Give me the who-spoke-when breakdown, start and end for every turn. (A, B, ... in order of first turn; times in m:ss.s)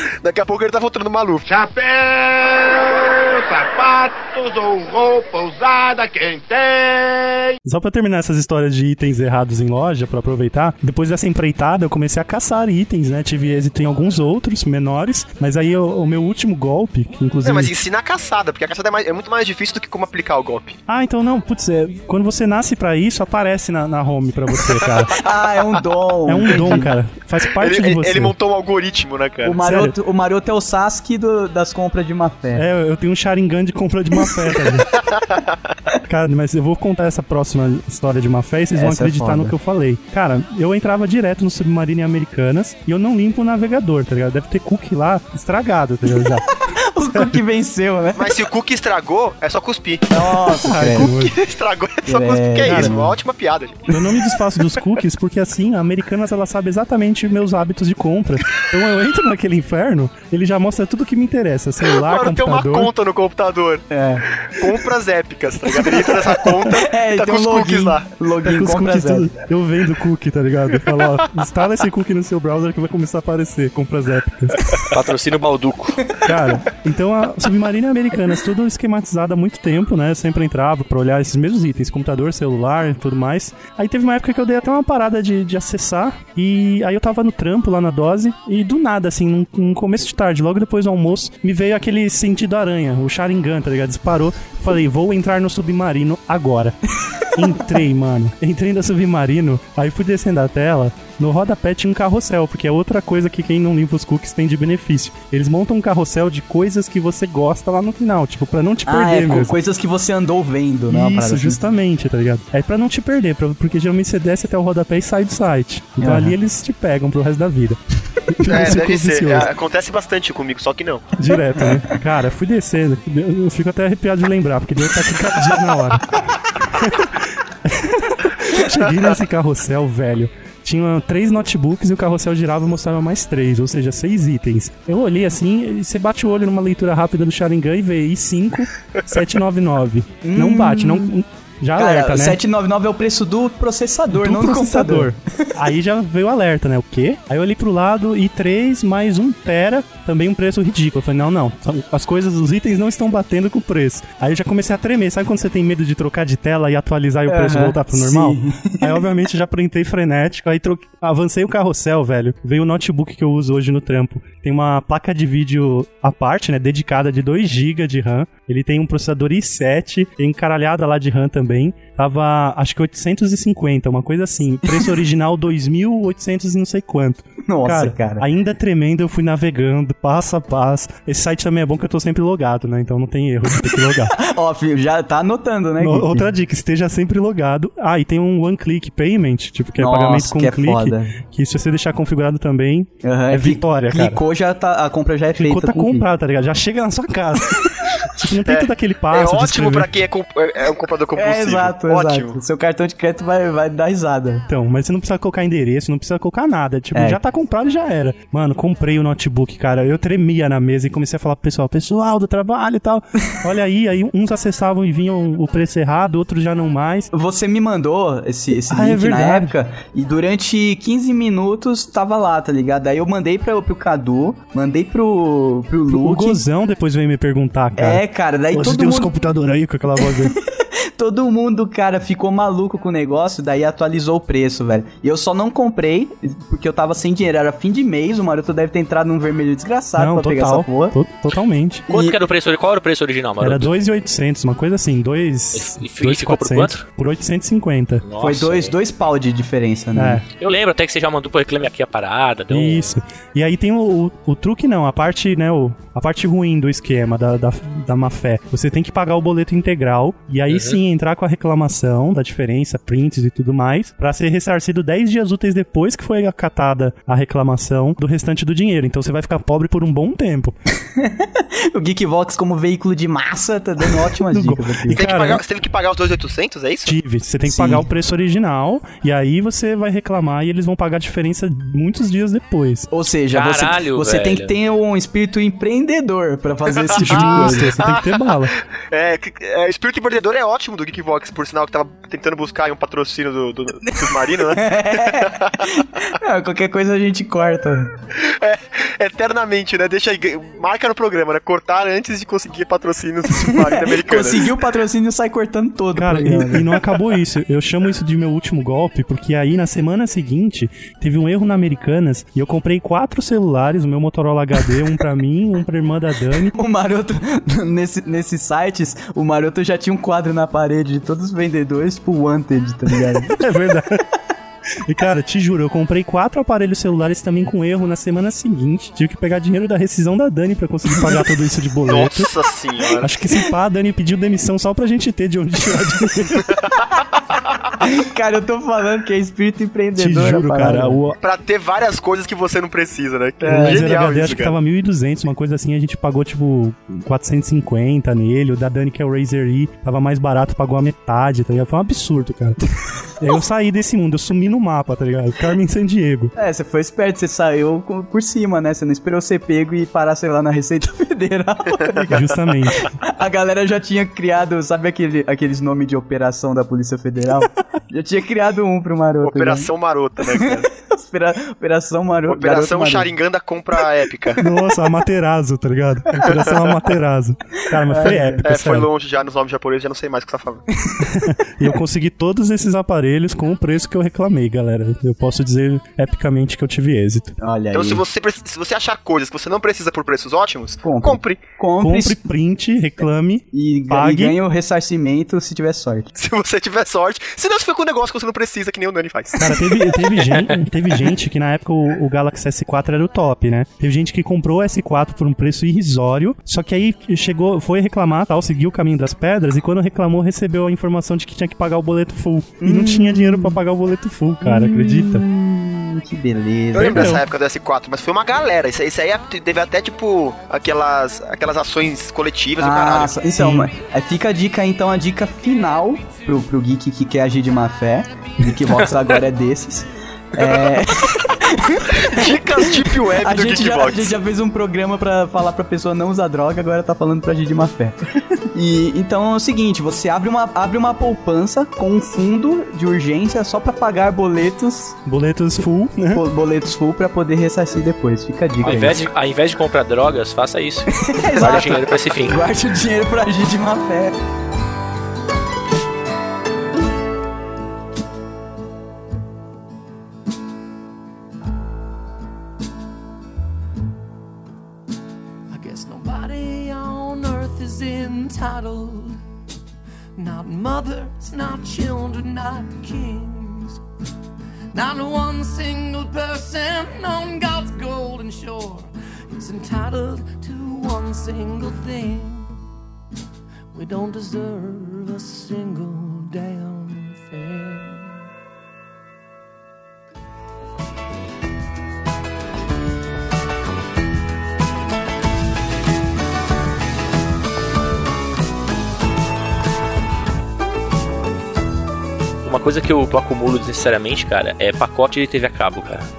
0:00.2-0:01.4 A
0:01.5-0:07.6 B
0:07.6-0:17.7 C
0:17.4-0:20.8 A
0:20.9-0:25.2 C
0:25.2-0:26.9 D
0:26.3-0:28.3 C
0:27.6-0:29.6 A
0:29.4-0:32.6 D
0:29.6-0:30.0 C
0:32.6-0:34.9 C
0:35.1-0:35.5 A
0:36.1-0:46.4 C
0:38.8-0:39.5 D
0:46.7-0:48.4 D
0:47.1-0:47.4 C
0:48.2-0:53.9 A
0:50.1-0:51.1 D
0:50.6-0:51.4 C
0:52.1-0:53.2 D
0:52.6-0:52.9 C
0:53.9-1:02.9 C
1:01.9-1:03.9 A
1:03.9-1:04.3 D
1:04.4-1:08.1 A
1:05.8-1:06.1 D
1:06.6-1:09.3 D
1:08.4-1:14.6 C
1:14.9-1:16.1 E
1:16.2-1:36.8 C
1:37.3-1:49.6 C
1:48.9-1:51.6 D
1:50.9-1:59.5 C
1:56.0-1:56.4 D
1:58.5-2:01.2 A
2:01.2-2:22.4 C
2:20.2-2:21.1 D
2:21.8-2:25.5 D
2:24.1-3:04.2 C
2:37.3-2:39.0 D
2:57.5-2:58.3 D
3:03.9-3:06.3 D
3:05.8-3:14.2 C
3:09.8-3:11.2 D
3:13.0-3:16.0 D
3:15.4-3:19.9 C
3:18.5-3:22.4 A
3:21.2-3:24.5 D
3:24.5-3:37.1 C
3:26.9-3:27.2 D
3:37.1-3:46.4 D
3:38.7-3:39.6 C
3:45.9-3:50.4 C
3:47.8-3:49.1 D
3:50.0-4:01.0 D
4:00.0-4:01.9 C
4:01.9-4:03.7 E
4:01.9-4:02.2 D
4:03.4-4:08.1 C
4:05.5-4:06.8 E
4:08.0-4:08.8 E
4:08.2-4:10.2 D
4:10.0-4:10.2 C
4:10.4-4:13.0 E
4:12.5-4:30.6 C
4:20.5-4:20.8 E
4:31.0-4:35.0 D
4:34.3-4:35.4 C
4:34.9-4:37.0 A
4:36.8-4:42.9 C
4:37.4-4:37.8 D
4:42.9-4:47.9 D
4:43.3-4:44.6 E
4:46.9-4:55.7 A
4:47.0-4:48.6 C
4:54.4-4:57.9 D
4:58.2-5:04.5 A
5:03.3-5:06.8 D
5:05.9-5:16.6 C
5:16.4-5:23.4 D
5:23.0-5:24.0 C
5:24.8-5:32.3 C
5:30.9-5:31.3 D
5:31.9-5:33.2 A
5:33.0-5:36.5 C
5:37.8-5:41.0 D
5:40.0-5:41.2 C
5:41.2-5:44.6 A
5:43.4-5:43.8 D
5:43.4-5:52.6 C
5:53.2-5:56.3 C
5:56.4-6:02.4 D
6:02.1-6:02.9 C
6:02.9-6:09.7 D
6:09.2-6:10.7 A
6:10.2-6:13.1 D
6:12.3-6:14.4 A
6:14.4-6:18.9 C
6:16.3-6:16.6 A
6:17.8-6:18.4 D
6:18.4-6:20.6 A
6:21.0-6:27.4 C
6:27.4-6:28.0 D
6:27.7-6:31.4 A
6:30.8-6:32.2 D
6:31.8-6:34.4 C
6:33.5-6:36.1 D
6:36.2-6:39.4 A
6:39.4-6:55.3 C
6:40.2-6:40.6 E
6:52.6-6:53.6 D
6:54.4-6:57.2 D
6:56.7-7:03.2 A
6:56.8-6:57.2 C
7:02.6-7:18.0 D
7:03.4-7:03.7 C
7:11.9-7:14.2 A
7:18.5-7:25.0 D
7:25.1-7:26.2 C
7:26.1-7:29.1 D
7:28.6-7:32.4 E
7:30.9-7:34.2 D
7:45.5-7:49.2 F
7:50.2-7:53.8 F
7:54.7-8:02.6 F
8:03.7-8:08.3 F
8:22.4-8:26.1 E